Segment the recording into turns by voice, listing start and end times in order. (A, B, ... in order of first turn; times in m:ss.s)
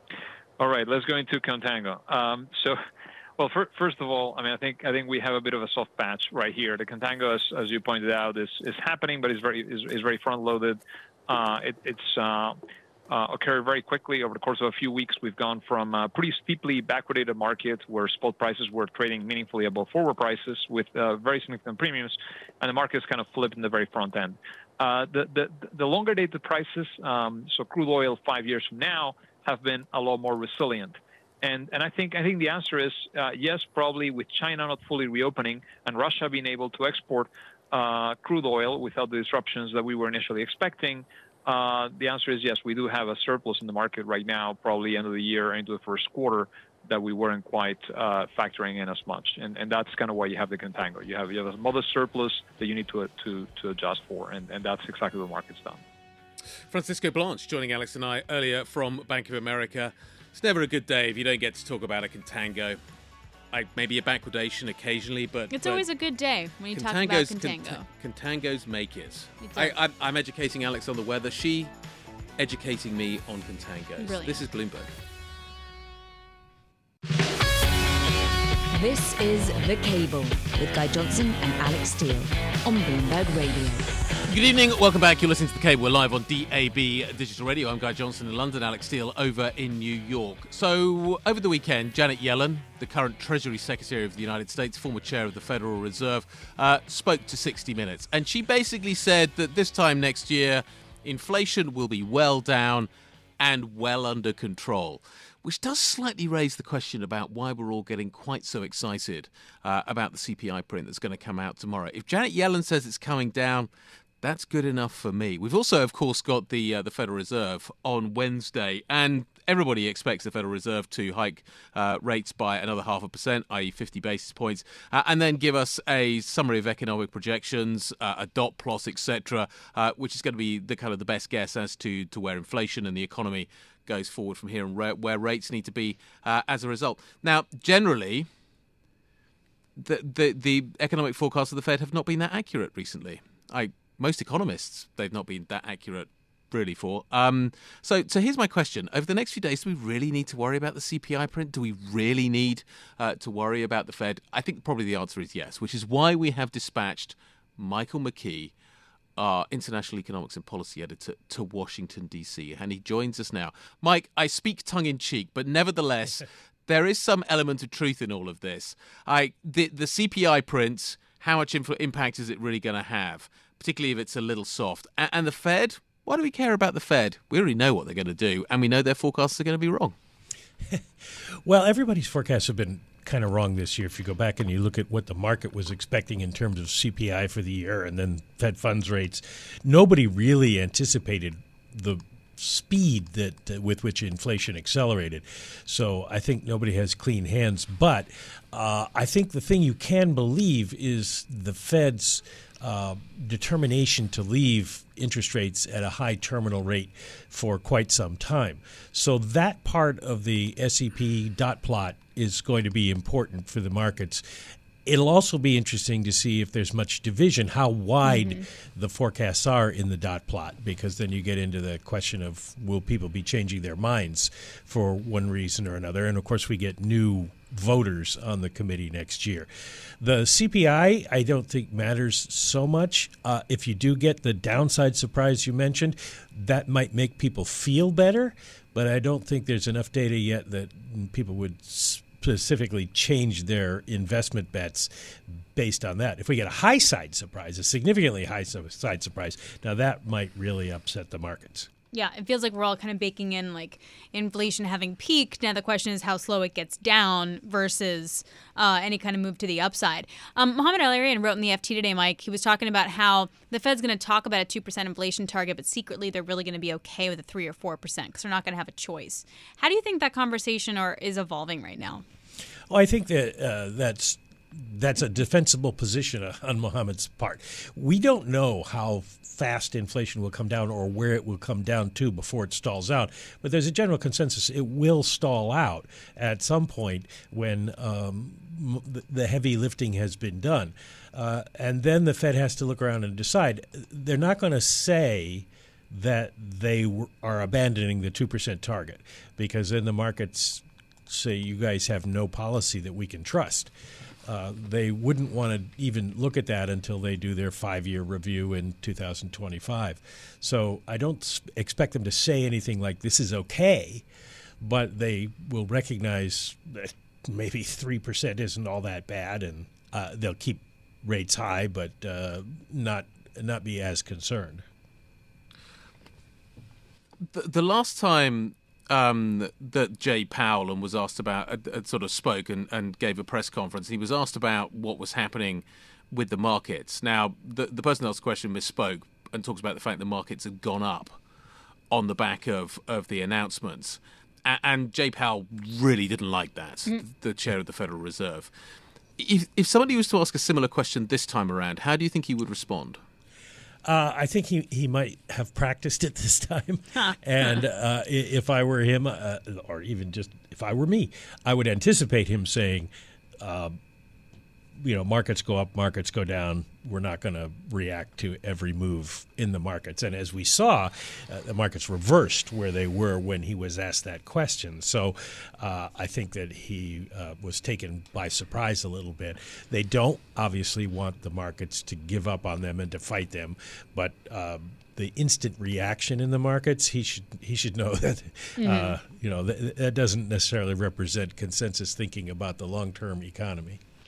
0:00.6-0:02.8 A
0:03.4-0:55.8 A
0:56.7-1:02.8 B
1:03.5-1:05.8 B
1:05.5-1:07.9 C
1:06.7-1:11.7 B
1:09.4-1:09.8 C
1:12.4-1:14.9 B
1:14.0-1:14.4 C
1:18.7-1:24.0 D
1:24.3-1:53.7 B
1:54.2-2:18.3 B
2:19.8-2:38.5 B
2:39.2-2:59.9 B
3:01.4-3:34.2 E
3:34.8-3:49.5 E
3:38.0-3:38.4 C
3:50.0-4:11.7 E
4:11.9-4:32.0 C
4:32.7-5:03.7 E
5:04.2-5:14.0 E
5:14.6-5:24.6 E
5:27.2-5:41.2 B
5:41.9-5:48.5 B
5:49.2-5:53.0 B
5:53.8-6:02.9 E
6:03.4-6:03.8 E
6:04.8-6:33.8 E
6:28.6-6:29.0 C